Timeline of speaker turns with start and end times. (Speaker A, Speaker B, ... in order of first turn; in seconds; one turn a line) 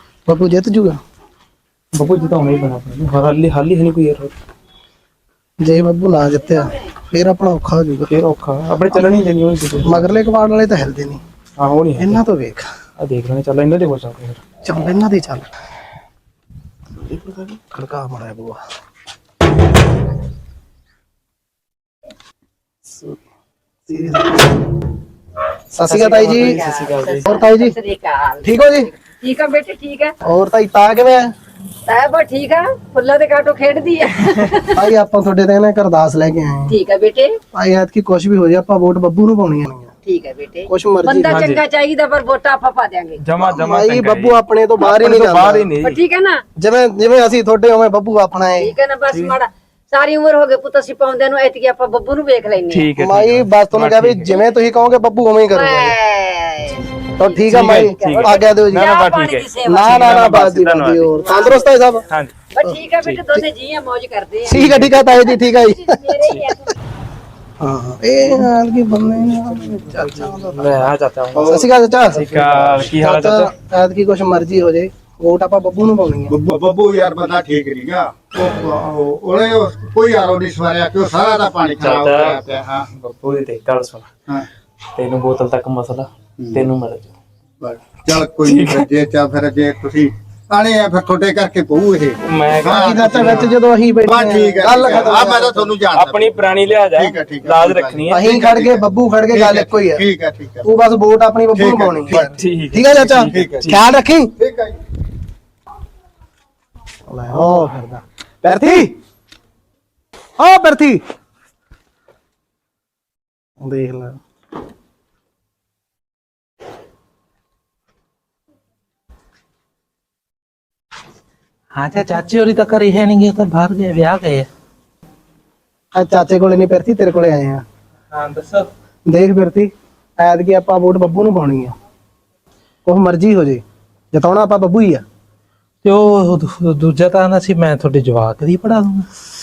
Speaker A: 0.2-1.0
Speaker B: 1.9-4.3
Speaker A: 5.6-8.1
Speaker B: 8.1-10.1
Speaker A: 9.8-11.2
Speaker B: 11.6-12.2
Speaker A: 12.0-12.7
Speaker B: 13.0-14.4
Speaker A: 14.6-15.5
Speaker B: 17.1-17.6
Speaker A: 17.7-18.6
Speaker A: 23.9-24.5
Speaker A: 25.7-26.6
Speaker B: 25.9-27.3
Speaker C: 26.1-30.1
Speaker A: 27.2-27.8
Speaker A: 28.4-28.9
Speaker A: 30.2-31.3
Speaker C: 31.9-34.8
Speaker A: 34.6-36.8
Speaker C: 36.7-37.4
Speaker A: 37.5-39.9
Speaker C: 40.0-43.2
Speaker A: 40.7-41.5
Speaker B: 41.2-41.6
Speaker B: 43.2-46.0
Speaker A: 43.5-45.7
Speaker C: 45.8-46.4
Speaker A: 46.6-48.7
Speaker C: 48.6-52.9
Speaker B: 49.0-49.4
Speaker B: 52.7-54.4
Speaker A: 53.0-56.0
Speaker C: 55.5-59.9
Speaker A: 57.2-58.9
Speaker B: 57.5-61.2
Speaker A: 59.6-62.0
Speaker C: 61.2-61.7
Speaker B: 62.1-63.4
Speaker C: 62.5-64.6
Speaker A: 64.4-66.5
Speaker B: 64.6-64.9
Speaker C: 65.9-66.6
Speaker A: 67.6-70.9
Speaker B: 70.4-71.5
Speaker D: 71.3-72.9
Speaker A: 71.5-72.3
Speaker B: 72.1-73.5
Speaker A: 72.9-76.3
Speaker D: 76.3-82.9
Speaker B: 81.8-84.1
Speaker B: 85.0-87.1
Speaker D: 87.6-100.7
Speaker B: 88.4-88.9
Speaker B: 92.2-93.5
Speaker A: 92.7-95.7
Speaker B: 95.9-98.1
Speaker A: 98.1-100.0
Speaker A: 100.6-104.3
Speaker D: 101.5-102.4
Speaker B: 102.2-103.8
Speaker D: 102.9-103.8
Speaker D: 104.4-104.8
Speaker A: 107.1-108.9
Speaker A: 110.4-111.0
Speaker A: 113.6-114.2
Speaker E: 121.7-124.5
Speaker A: 125.9-127.6
Speaker E: 128.1-128.7
Speaker A: 129.1-131.7
Speaker A: 132.8-135.0
Speaker E: 135.8-139.1